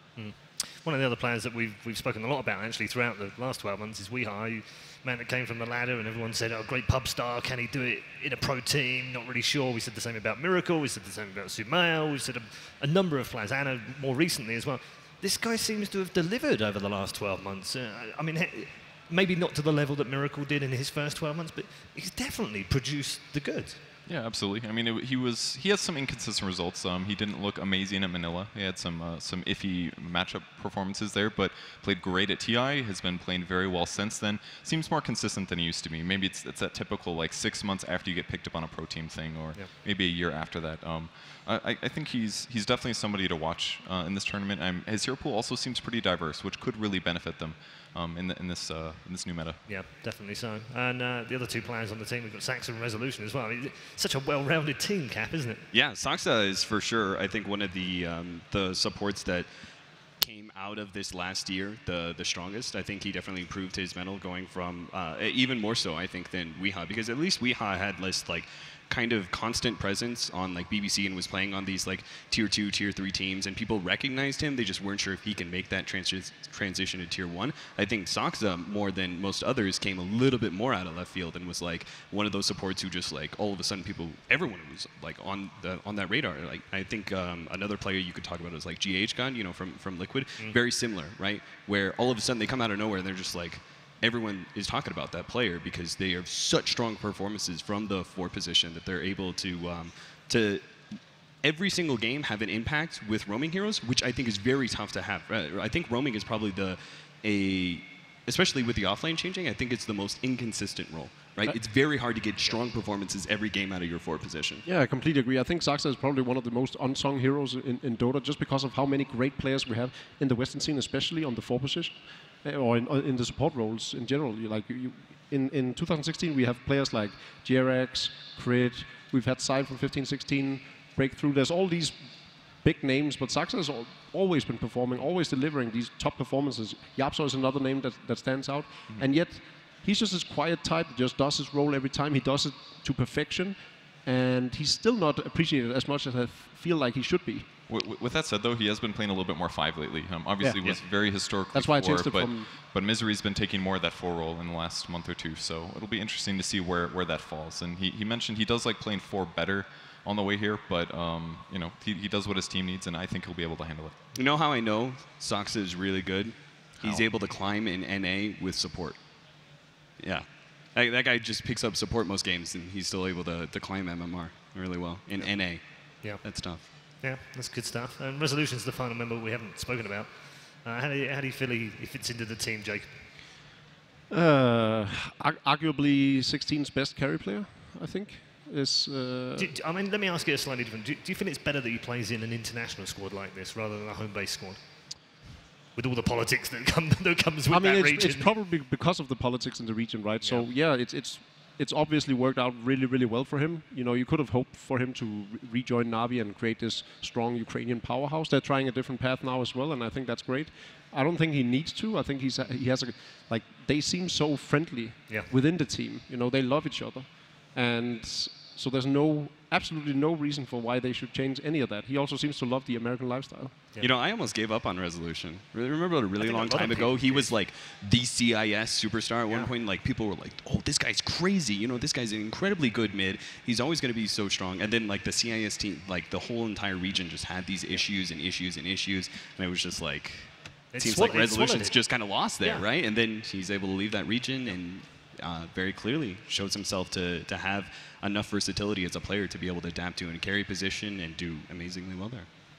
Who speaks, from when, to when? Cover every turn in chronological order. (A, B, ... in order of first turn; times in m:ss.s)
0:00.2-0:23.8 A
0:24.1-0:49.6 B
0:49.7-0:55.6 A
0:55.7-0:59.5 C
1:00.2-1:54.6 C
1:54.6-2:27.5 D
2:27.7-2:44.0 B
2:30.4-2:30.8 D
2:31.5-2:32.5 D
2:44.2-2:49.4 C
2:46.8-2:47.1 B
2:50.0-2:56.7 C
2:55.2-3:02.9 A
3:04.1-3:09.5 D
3:09.4-3:15.2 A
3:15.8-3:18.3 A
3:17.5-3:43.6 D
3:20.2-3:20.5 A
3:43.8-4:12.3 C
3:46.2-3:47.3 A
4:00.7-4:02.6 A